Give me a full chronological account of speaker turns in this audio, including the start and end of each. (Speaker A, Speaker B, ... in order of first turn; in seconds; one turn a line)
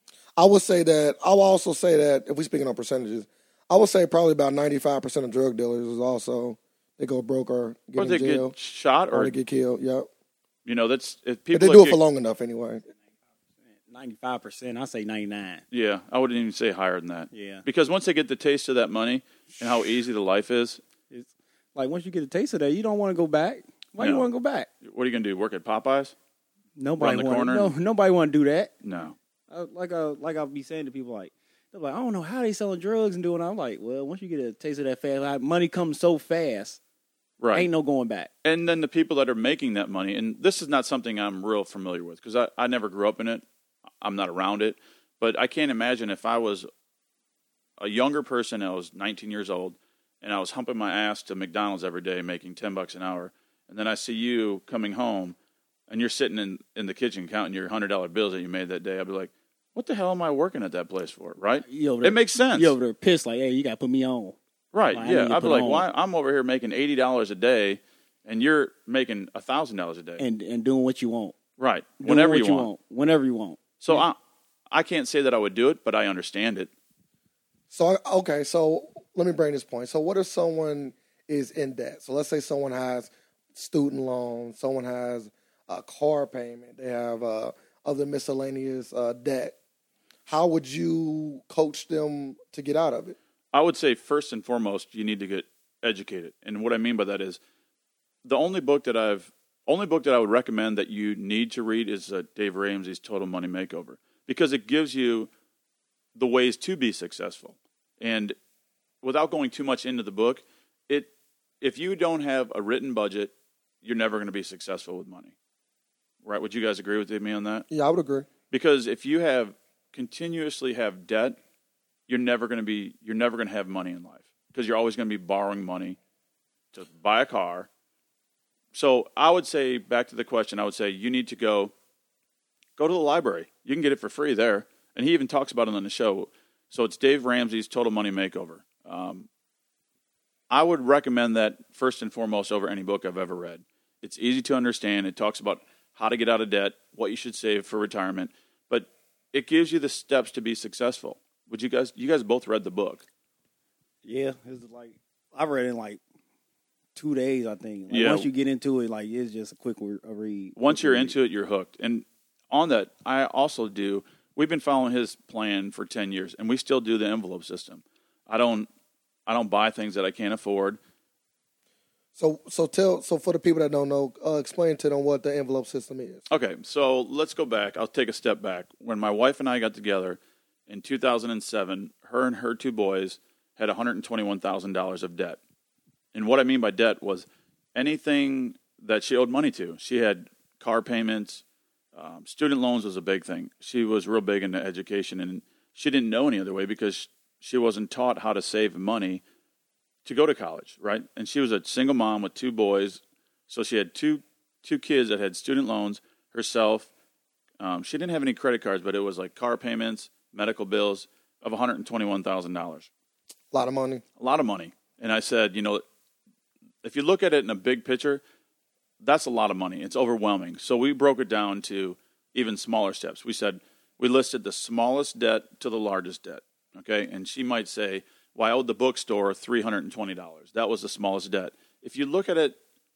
Speaker A: 0.4-8.5
Speaker B: 8.0-9.3
Speaker A: 9.1-10.1
Speaker B: 10.6-12.0
Speaker A: 11.5-12.8
Speaker C: 13.8-15.6
Speaker B: 15.7-20.8
Speaker C: 17.3-17.6
Speaker C: 21.1-24.7
Speaker B: 24.0-24.3
Speaker B: 24.8-26.1
Speaker C: 26.8-28.7
Speaker B: 27.0-27.7
Speaker B: 28.8-29.1
Speaker C: 29.5-36.8
Speaker B: 37.4-37.7
Speaker C: 37.5-38.3
Speaker B: 38.4-43.4
Speaker B: 44.0-46.7
Speaker B: 47.8-55.4
Speaker B: 55.9-62.8
Speaker C: 61.6-64.4
Speaker B: 64.7-70.2
Speaker C: 64.9-65.9
Speaker C: 70.2-71.3
Speaker B: 71.6-72.7
Speaker C: 72.0-74.0
Speaker B: 73.8-74.2
Speaker B: 74.7-76.7
Speaker A: 77.7-89.5
Speaker A: 90.3-93.2
Speaker B: 93.5-97.4
Speaker B: 98.2-105.3
Speaker B: 106.2-108.3
Speaker B: 109.0-111.1
Speaker B: 111.6-115.3
Speaker B: 116.2-117.7
Speaker A: 117.7-118.3
Speaker B: 118.5-121.4
Speaker B: 122.1-126.0
Speaker B: 126.7-127.7
Speaker B: 128.7-131.7
Speaker B: 132.8-139.3
Speaker B: 140.5-153.0
Speaker C: 154.0-156.0
Speaker C: 156.9-161.1
Speaker B: 157.9-158.3
Speaker B: 160.6-168.7
Speaker B: 169.3-170.8
Speaker A: 172.2-176.2
Speaker B: 176.3-185.4
Speaker B: 186.1-191.4
Speaker B: 191.9-199.2
Speaker B: 200.0-206.9
Speaker B: 207.6-212.9
Speaker A: 213.5-214.0
Speaker B: 214.2-215.8
Speaker B: 216.8-218.2
Speaker B: 219.0-232.6